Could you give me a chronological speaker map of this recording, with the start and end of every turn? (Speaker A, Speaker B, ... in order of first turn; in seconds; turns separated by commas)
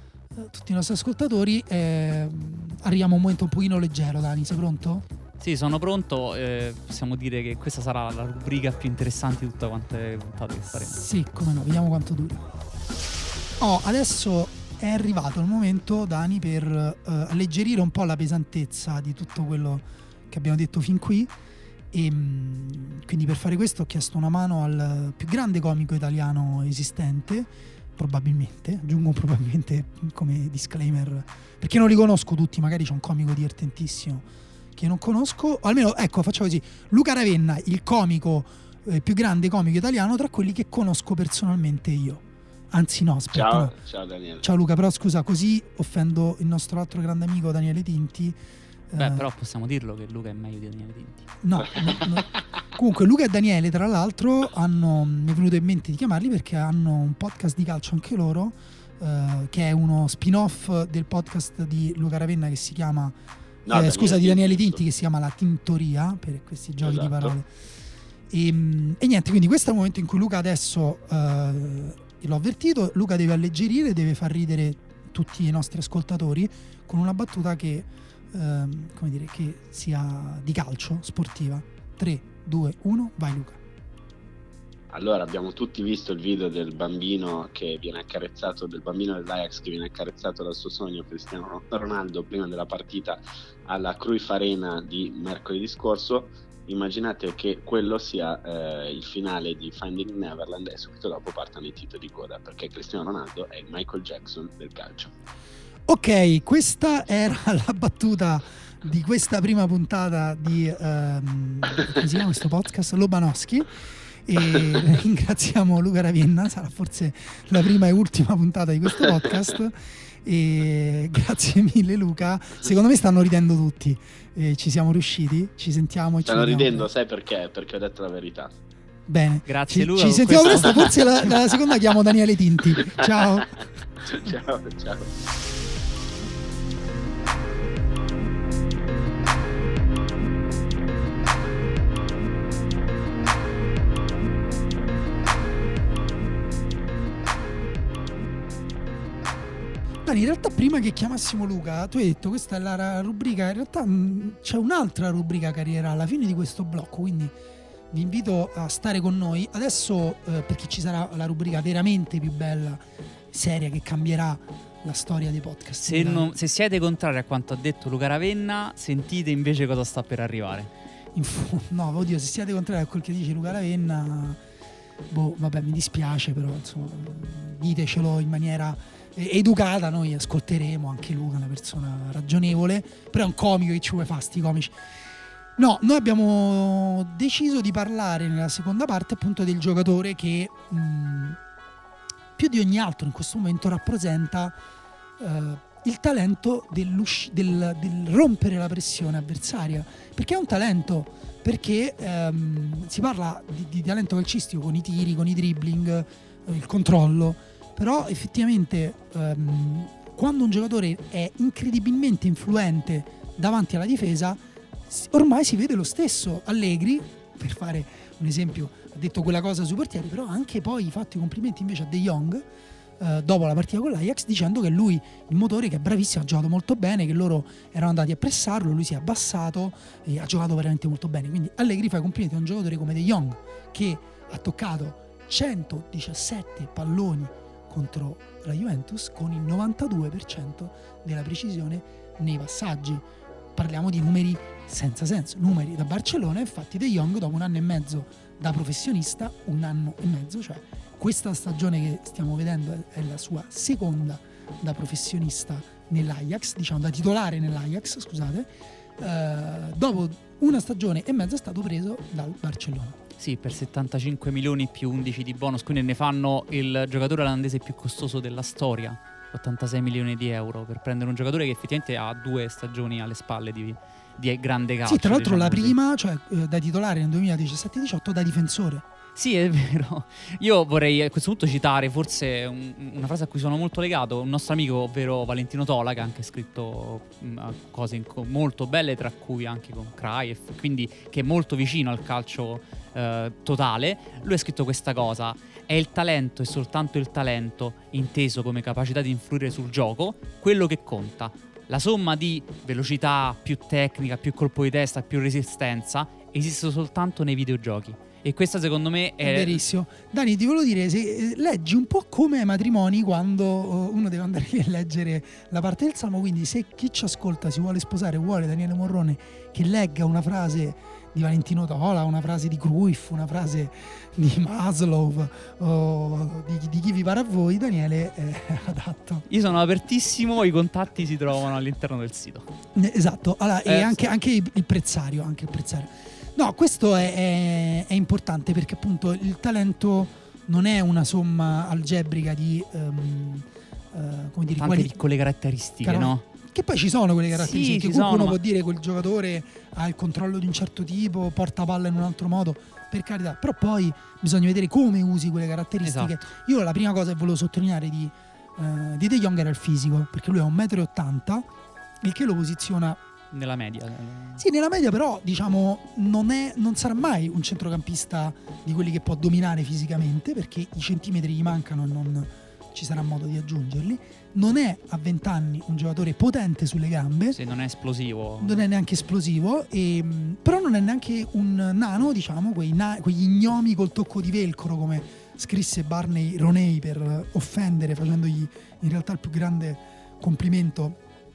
Speaker A: 0.3-5.0, Speaker B: 5.4-11.0, Speaker A: 10.7-12.4, Speaker A: 13.6-21.3, Speaker A: 21.9-43.8, Speaker C: 43.3-44.4, Speaker A: 44.4-48.4, Speaker A: 48.9-49.3, Speaker B: 49.0-51.3, Speaker A: 51.4-63.2, Speaker C: 63.6-64.8, Speaker A: 63.7-67.5, Speaker C: 66.8-67.3, Speaker A: 68.3-83.6, Speaker C: 84.9-105.1, Speaker A: 105.9-126.9, Speaker C: 126.2-128.5, Speaker A: 129.1-133.6, Speaker B: 129.5-130.9, Speaker C: 134.0-135.1, Speaker A: 150.0-157.3, Speaker A: 157.9-166.3, Speaker B: 165.8-170.7, Speaker A: 171.1-174.4, Speaker A: 175.1-184.8, Speaker A: 185.6-191.4, Speaker A: 192.4-194.6, Speaker A: 195.2-222.5, Speaker A: 223.0-263.0, Speaker B: 263.2-275.8, Speaker A: 274.9-278.9, Speaker B: 279.1-309.6, Speaker A: 309.2-329.3, Speaker B: 329.3-332.5, Speaker A: 332.8-344.9, Speaker B: 333.7-334.0, Speaker B: 344.6-346.3, Speaker A: 345.8-361.5, Speaker B: 347.3-348.4, Speaker B: 355.8-356.2, Speaker A: 362.0-363.0, Speaker B: 363.3-364.4, Speaker A: 364.4-377.4, Speaker B: 377.3-378.6, Speaker A: 378.4-391.0